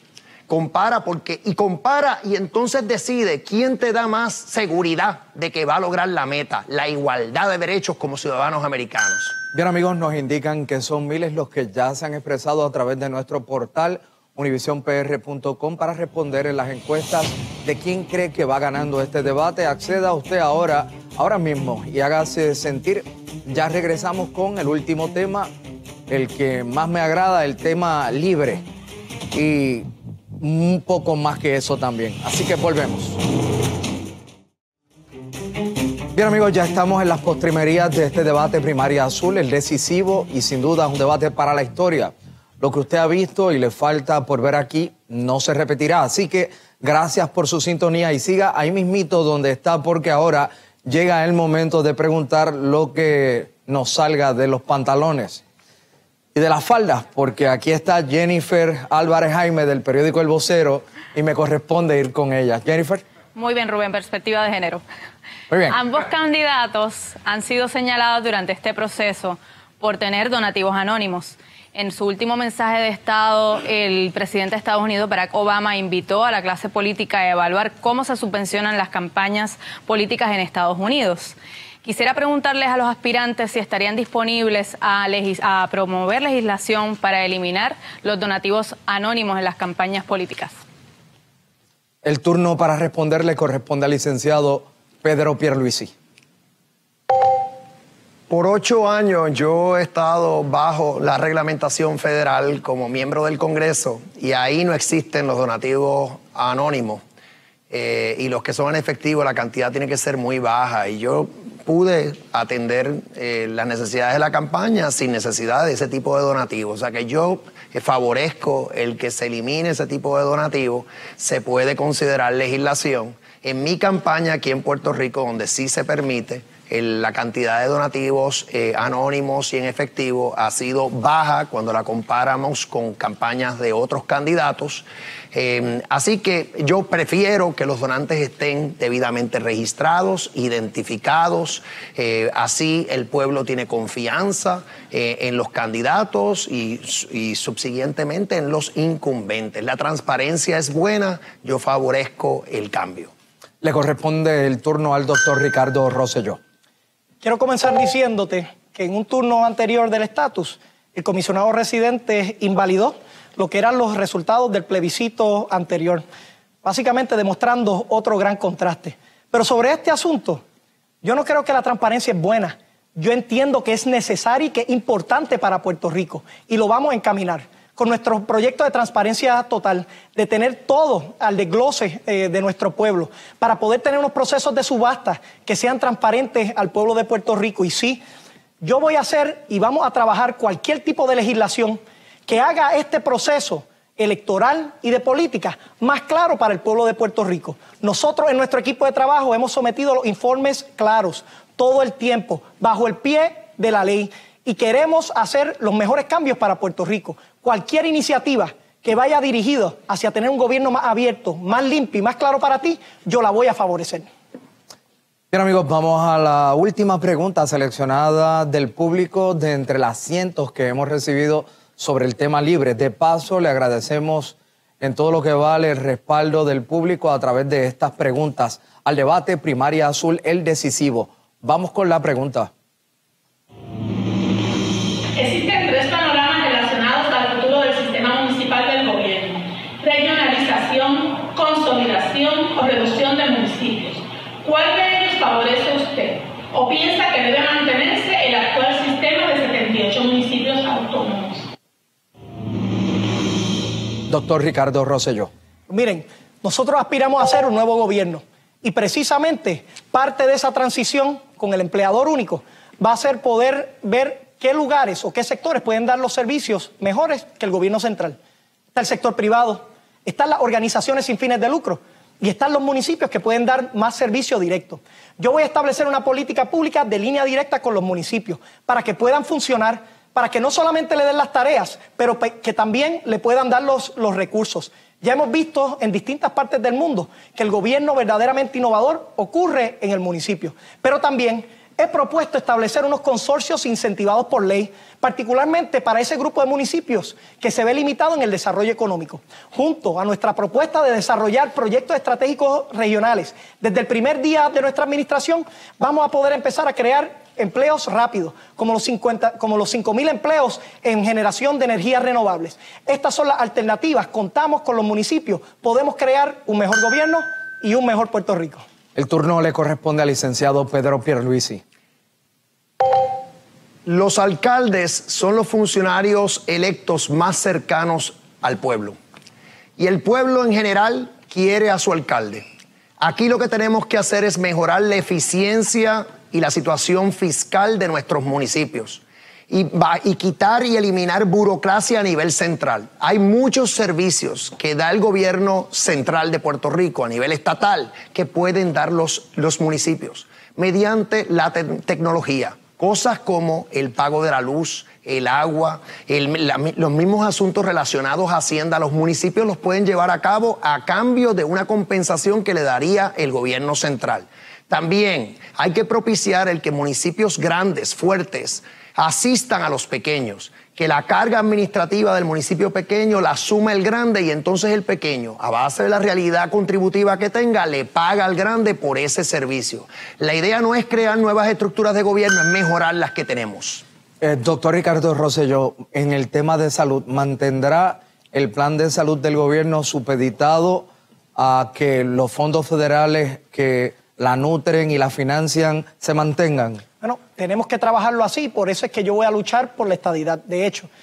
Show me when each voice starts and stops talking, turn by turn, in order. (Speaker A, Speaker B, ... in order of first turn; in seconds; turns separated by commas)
Speaker A: 0.5-9.4, Speaker B: 9.5-25.5, Speaker B: 26.1-28.6, Speaker B: 29.3-29.9, Speaker B: 30.4-33.2, Speaker B: 36.1-55.4, Speaker B: 56.3-63.0, Speaker C: 63.3-64.8, Speaker B: 65.5-65.8, Speaker C: 65.7-90.5, Speaker B: 92.0-95.9, Speaker A: 98.3-107.0, Speaker A: 107.7-153.1, Speaker B: 153.6-156.4, Speaker D: 157.2-166.0, Speaker D: 166.6-170.4, Speaker D: 171.0-188.0, Speaker D: 188.6-214.1, Speaker B: 215.3-232.5, Speaker E: 235.2-251.5, Speaker B: 254.1-255.3, Speaker D: 255.7-268.2, Speaker D: 268.7-318.6, Speaker B: 318.9-321.6, Speaker A: 323.8-329.0, Speaker A: 329.8-332.4, Speaker A: 333.0-383.8, Speaker B: 384.2-396.8, Speaker D: 397.0-400.9